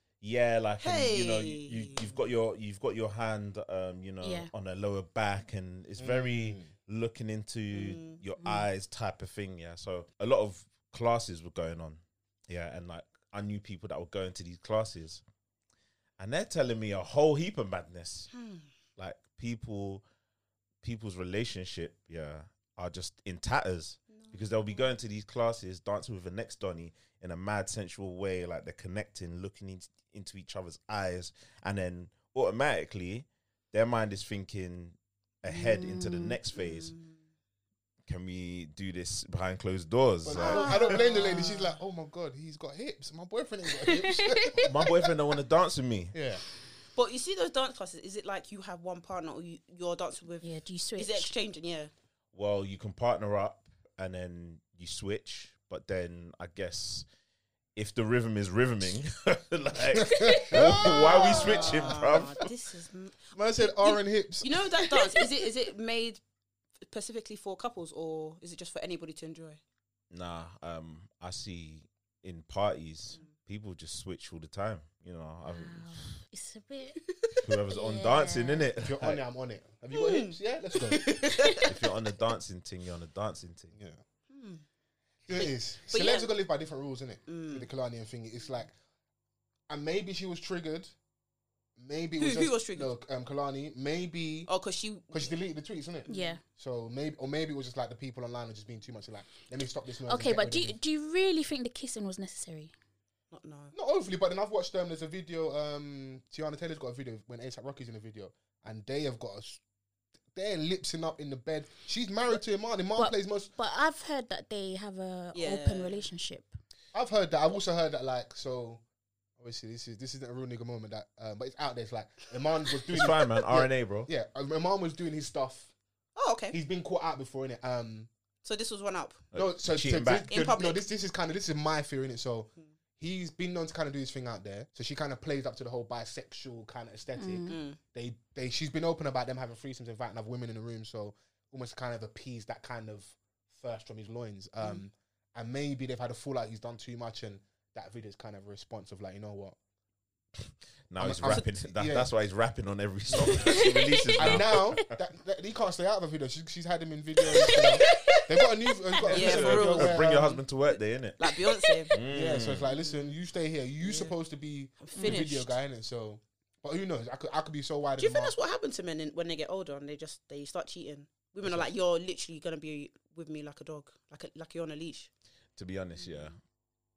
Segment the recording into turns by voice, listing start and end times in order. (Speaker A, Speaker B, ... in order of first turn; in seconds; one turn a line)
Speaker A: 0.2-15.2
Speaker B: 0.8-2.2
Speaker C: 4.2-4.5
Speaker D: 6.0-6.7
Speaker B: 7.7-8.2
Speaker C: 8.4-8.7
Speaker A: 16.2-18.3
Speaker B: 18.3-18.6
Speaker A: 19.0-20.0
Speaker A: 20.8-36.9
Speaker B: 24.1-24.8
Speaker C: 35.5-36.4
Speaker B: 36.5-37.2
Speaker A: 38.1-40.8
Speaker D: 40.2-44.9
Speaker B: 40.4-41.6
Speaker C: 40.7-41.5
Speaker C: 43.8-44.7
Speaker A: 44.6-46.2
Speaker D: 46.1-46.4
Speaker B: 47.0-51.9
Speaker C: 50.4-51.3
Speaker A: 52.3-57.1
Speaker A: 57.8-62.5
Speaker D: 60.0-62.3
Speaker C: 60.1-60.5
Speaker B: 60.7-66.2
Speaker D: 63.3-64.7
Speaker B: 66.8-69.6
Speaker A: 70.1-76.2
Speaker C: 75.5-77.0
Speaker B: 77.0-77.3
Speaker A: 77.4-79.2
Speaker C: 77.7-78.7
Speaker D: 78.8-81.2
Speaker B: 79.9-81.9
Speaker C: 81.3-81.6
Speaker A: 81.7-83.7
Speaker D: 83.7-84.0
Speaker B: 84.3-84.6
Speaker D: 85.3-88.7
Speaker B: 85.3-86.3
Speaker B: 87.3-87.7
Speaker D: 89.7-90.9
Speaker D: 91.8-94.5
Speaker B: 92.2-92.9
Speaker B: 94.5-95.3
Speaker D: 95.1-100.8
Speaker B: 96.1-96.4
Speaker C: 96.1-96.4
Speaker C: 100.0-102.7
Speaker B: 103.3-103.7
Speaker D: 103.7-109.6
Speaker D: 110.3-113.5
Speaker C: 113.0-116.6
Speaker B: 115.3-116.0
Speaker D: 116.9-118.8
Speaker D: 119.4-125.7
Speaker A: 122.9-124.1
Speaker B: 126.2-126.6
Speaker D: 126.5-128.1
Speaker B: 128.4-129.3
Speaker A: 129.3-130.3
Speaker D: 129.3-149.6
Speaker B: 130.3-130.8
Speaker C: 137.2-137.6
Speaker B: 137.5-137.8
Speaker A: 150.9-154.9
Speaker D: 151.0-152.1
Speaker B: 151.2-151.5
Speaker D: 153.1-153.4
Speaker C: 153.4-154.8
Speaker D: 154.2-160.4
Speaker B: 157.3-158.3
Speaker B: 159.0-162.0
Speaker A: 159.1-161.3
Speaker C: 161.3-161.8
Speaker A: 161.9-162.7
Speaker D: 162.0-168.3
Speaker B: 163.8-164.2
Speaker B: 164.8-165.6
Speaker C: 165.0-165.3
Speaker B: 168.0-175.1
Speaker D: 171.4-171.7
Speaker A: 175.6-176.4
Speaker B: 176.0-176.3